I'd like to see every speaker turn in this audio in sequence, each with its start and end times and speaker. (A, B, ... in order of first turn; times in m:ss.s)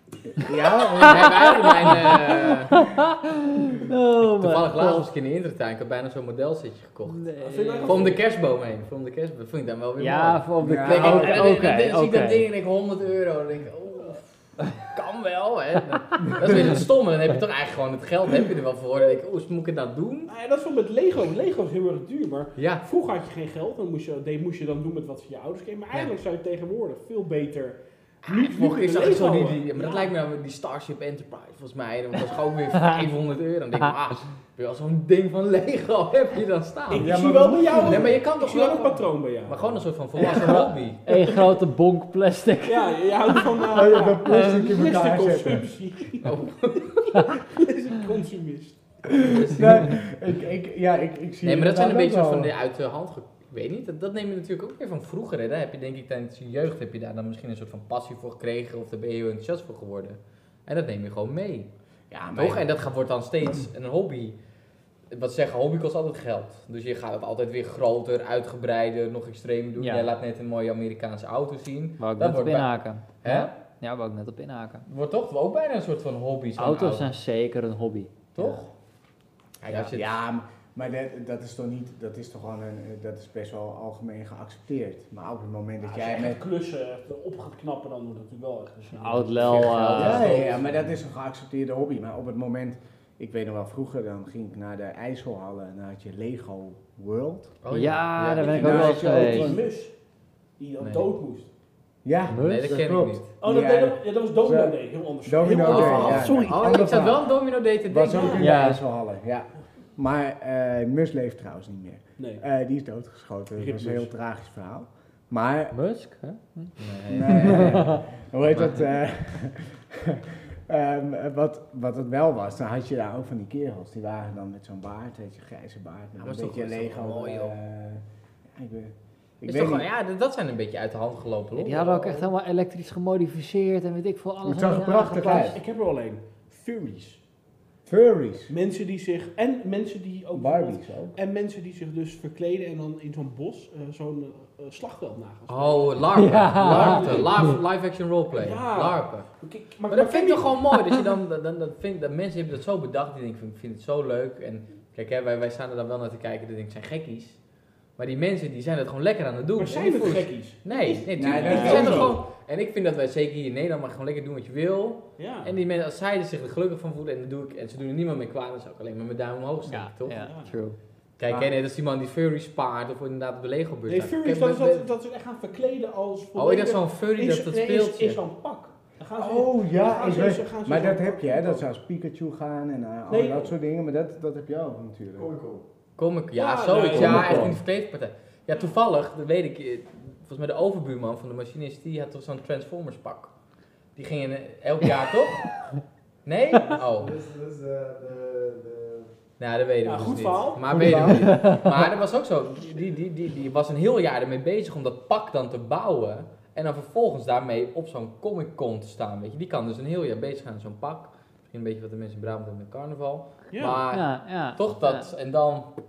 0:00.3-0:01.9 A
0:01.0-0:02.9 B
0:01.0-0:05.1 C
0:04.2-0:20.3 B
0:07.1-0:08.0 C
0:07.4-0:08.2 D
0:10.0-0:12.4 C
0:10.6-0:11.5 A
0:20.3-0:30.1 D
0:22.6-0:22.8 B
0:28.2-0:37.1 B
0:36.9-0:40.7 D
0:37.0-0:38.2 A
0:37.8-0:41.0 B
0:41.0-0:43.6 C
0:42.6-0:46.4 D
0:43.6-0:45.7 A
0:46.2-0:47.3 B
0:47.4-0:49.3 D
0:49.2-0:50.0 B
0:49.5-0:52.5 A
0:51.4-1:01.7 B
1:02.1-1:02.6 A
1:02.3-1:04.4 B
1:05.1-1:13.5 B
1:09.8-1:10.1 C
1:12.0-1:14.8 C
1:14.9-1:17.1 B
1:16.6-1:18.6 C
1:18.4-1:18.7 B
1:19.6-1:20.1 B
1:19.7-1:26.4 A
1:25.8-1:30.6 D
1:28.9-1:30.3 C
1:29.4-1:30.7 B
1:30.0-1:37.5 A
1:37.6-1:38.9 B
1:37.7-1:39.5 C
1:38.4-1:39.9 D
1:38.4-1:39.7 A
1:40.6-1:41.5 D
1:40.8-1:41.1 B
1:42.0-1:47.3 A
1:42.3-1:43.3 B
1:42.3-1:42.7 C
1:43.4-1:46.9 D
1:45.4-1:48.4 B
1:47.9-1:55.7 A
1:48.1-1:48.4 D
1:48.4-1:48.8 C
1:53.6-1:54.1 D
1:55.7-1:56.7 C
1:56.8-1:57.9 B
1:57.1-2:08.0 A
1:57.3-1:58.0 C
2:06.2-2:07.6 B
2:08.5-2:09.9 A
2:09.4-2:12.3 B
2:11.6-2:15.6 C
2:14.4-2:15.6 A
2:15.2-2:17.2 D
2:17.9-2:18.5 A
2:18.5-2:26.1 D
2:20.3-2:21.2 A
2:25.5-2:29.3 B
2:26.1-2:27.6 C
2:26.6-2:27.5 D
2:28.3-2:30.5 D
2:29.9-2:37.4 B
2:38.0-2:50.2 B
2:39.6-2:42.2 D
2:41.1-2:42.2 A
2:45.2-2:45.5 D
2:49.7-2:50.8 C
2:50.2-2:50.5 D
2:51.2-2:54.9 B
2:53.9-3:01.7 D
2:56.4-2:58.2 B
2:59.2-3:05.3 A
3:03.1-3:03.5 D
3:05.2-3:05.6 E
3:06.0-3:13.3 B
3:06.4-3:07.6 D
3:06.9-3:07.6 C
3:14.0-3:15.7 B
3:16.2-3:17.1 B
3:16.7-3:19.1 E
3:19.4-3:35.7 B
3:19.8-3:21.1 D
3:20.7-3:21.3 A
3:21.2-3:21.7 C
3:33.5-3:33.8 D
3:33.9-3:35.1 C